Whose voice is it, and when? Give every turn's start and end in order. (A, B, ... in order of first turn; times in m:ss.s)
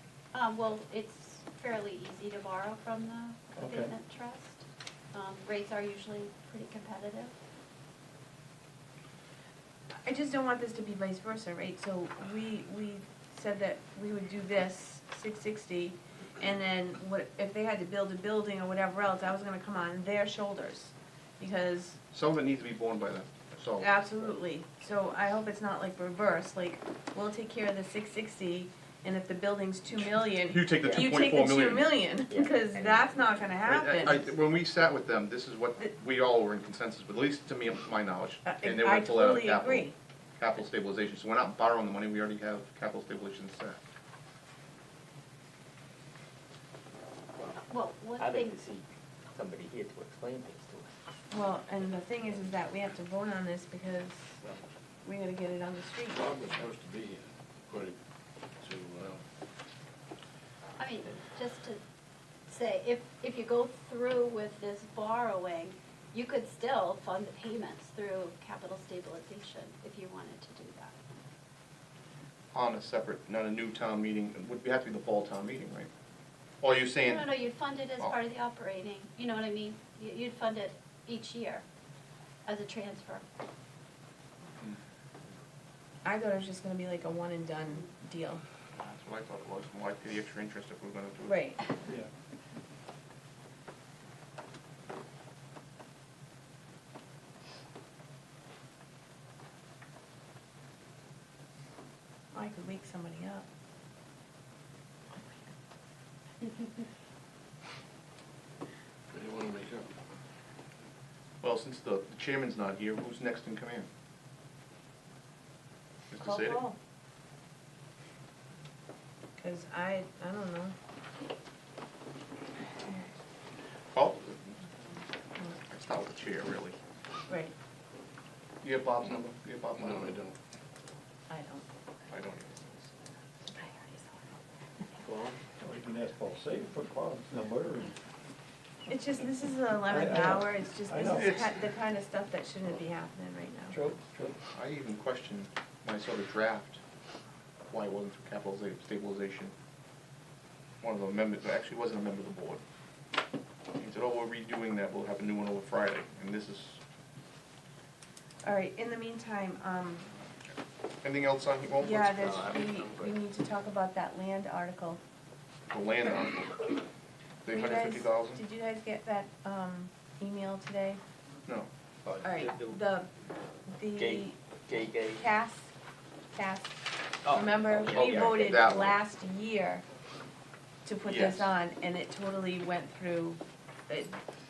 0:00.3-0:07.3 A
0:03.6-0:03.9 B
0:10.0-0:22.0 C
0:22.1-0:23.9 D
0:23.8-0:34.3 C
0:30.5-0:31.9 D
0:30.8-0:31.1 E
0:32.3-0:33.5 E
0:33.7-0:39.9 D
0:38.4-0:40.0 C
0:40.4-0:43.8 D
0:47.7-0:48.6 A
0:48.2-0:50.9 E
0:51.3-0:54.4 C
0:55.0-0:56.2 C
0:56.1-0:58.0 F
0:58.6-0:59.2 F
1:00.8-1:01.8 A
1:02.5-1:10.9 A
1:12.5-1:15.9 D
1:16.6-1:17.3 D
1:17.0-1:21.6 A
1:22.5-1:23.2 A
1:26.0-1:28.4 C
1:28.8-1:31.4 D
1:31.3-1:31.7 C
1:42.3-1:43.5 C
1:49.1-1:49.9 F
1:51.4-1:53.9 D
1:56.1-1:56.6 D
1:56.2-1:56.8 C
1:59.4-2:00.8 C
2:02.8-2:03.1 C
2:03.9-2:04.6 D
2:05.4-2:06.8 D
2:07.3-2:07.5 C
2:08.6-2:10.2 D
2:09.8-2:10.4 F
2:11.3-2:11.7 C
2:12.1-2:12.9 D
2:13.4-2:14.1 C
2:15.0-2:15.4 F
2:15.6-2:17.9 B
2:18.9-2:23.8 C
2:19.9-2:21.4 B
2:21.1-2:21.5 D
2:23.7-2:24.4 B
2:24.5-2:26.8 D
2:27.7-2:29.5 D
2:30.8-2:32.6 D
2:33.8-2:36.8 D
2:38.4-2:40.2 C
2:41.0-2:42.4 D
2:41.8-2:45.0 C
2:42.2-2:43.2 E
2:45.7-2:46.8 D
2:47.4-2:48.4 D
2:47.5-2:51.0 C
2:52.0-2:52.8 E
2:52.2-2:53.1 C
2:53.7-2:54.4 C
2:54.0-2:55.2 E
2:55.0-2:55.7 C
2:56.3-2:59.8 C
2:57.3-2:58.8 E
2:57.9-2:58.9 D
3:00.8-3:04.2 C
3:01.1-3:01.5 D